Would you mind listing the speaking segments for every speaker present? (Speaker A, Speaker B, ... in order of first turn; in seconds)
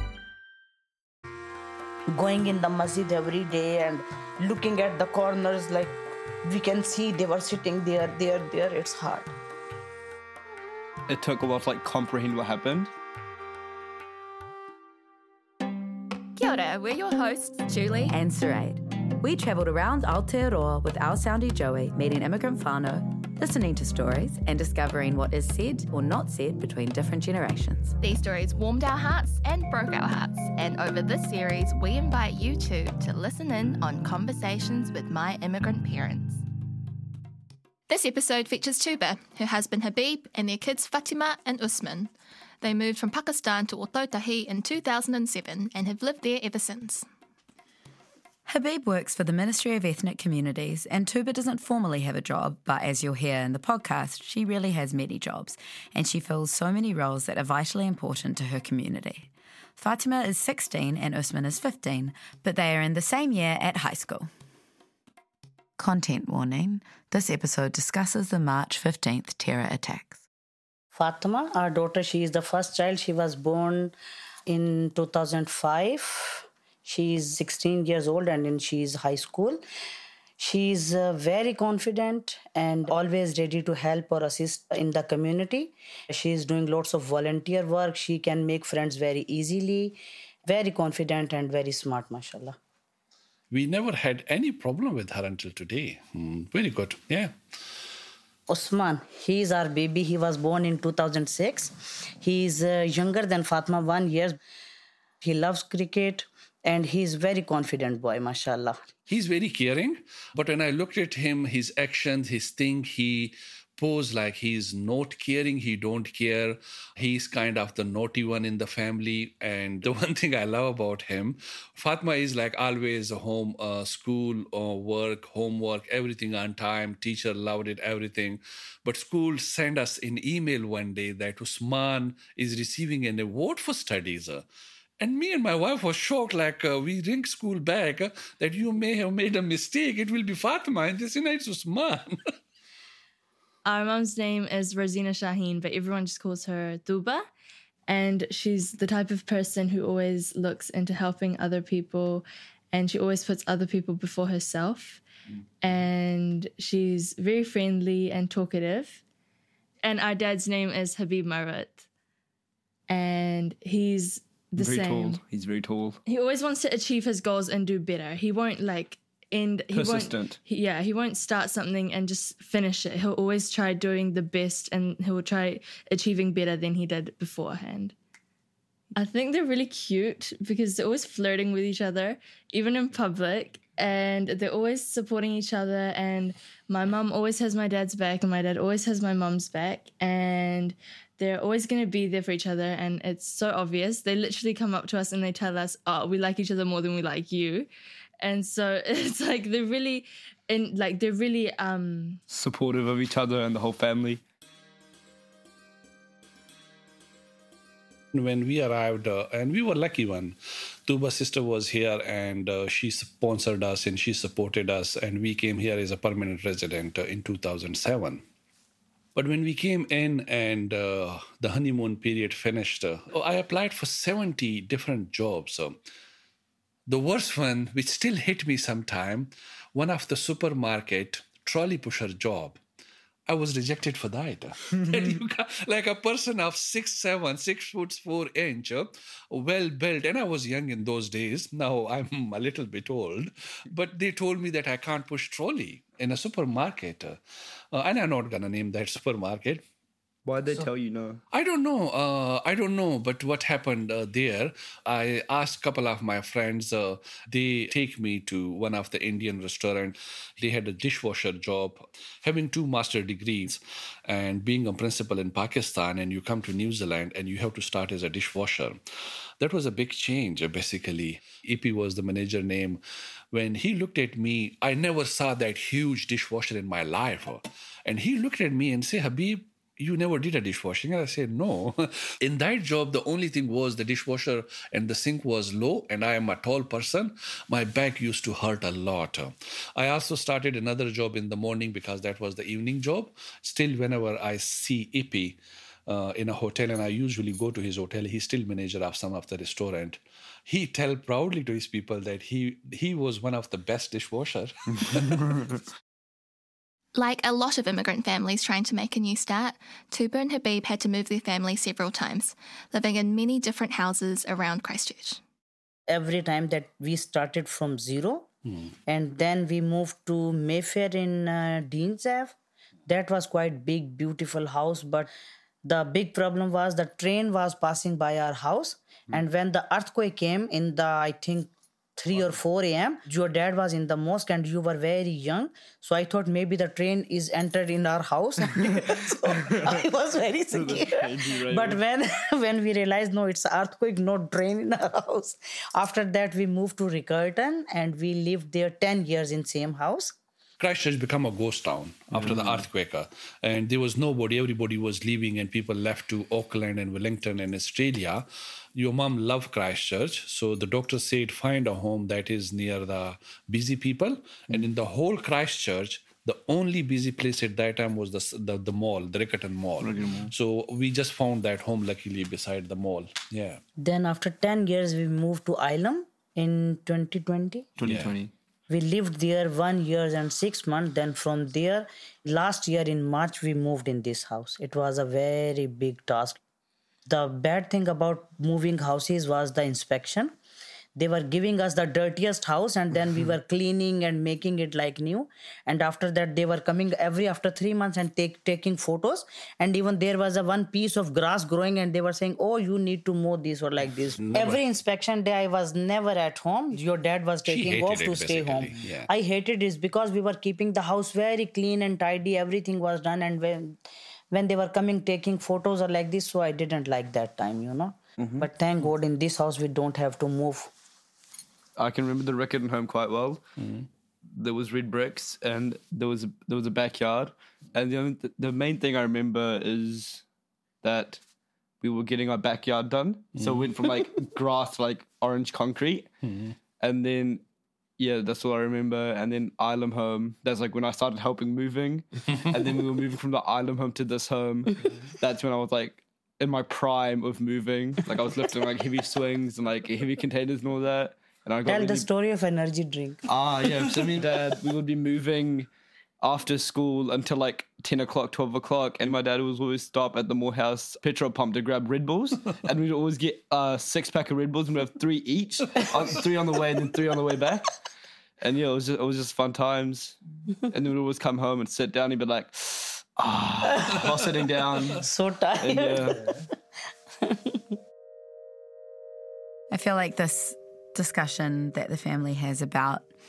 Speaker A: 2.1-9.3, 70.9-73.9, 74.5-79.6, 80.4-92.6, 98.5-104.4, 105.2-108.8, 315.9-318.3, 318.9-322.4, 322.9-325.1, 325.6-350.1, 373.8-377.7, 378.7-386.4, 387.1-390.3, 391.0-413.8, 414.3-420.7, 451.7-453.2, 475.0-476.3, 477.2-477.6
Speaker B: 11.1-12.9, 164.6-166.0, 169.7-170.4, 202.3-204.2, 250.2-251.2, 339.2-339.8, 340.5-341.8, 352.2-352.6, 369.8-370.3, 377.8-378.3, 418.2-418.5, 421.8-423.6, 424.3-430.2, 430.8-431.2, 431.8-436.1, 436.8-437.4, 438.0-452.1, 453.3-455.7, 456.2-467.7, 468.4-470.2, 470.7-475.0, 475.6-476.3
Speaker C: 16.4-18.1, 28.0-36.4, 37.9-47.0, 307.0-315.2
Speaker D: 18.1-27.9, 48.5-64.3, 65.8-70.2, 479.7-483.1
Speaker E: 93.5-97.3, 109.1-134.4, 135.0-142.2, 208.1-218.2, 219.2-225.8, 226.9-232.6, 233.3-247.2, 247.7-249.6, 251.3-268.8, 269.4-272.8, 273.3-305.5, 350.6-373.6, 377.9-378.2, 404.2-404.6, 407.4-409.1, 433.4-433.8, 436.3-436.5
Speaker F: 143.7-147.2, 147.9-155.0, 155.6-159.0, 159.8-161.8, 162.9-165.2, 166.1-177.9, 178.9-197.7, 198.2-202.2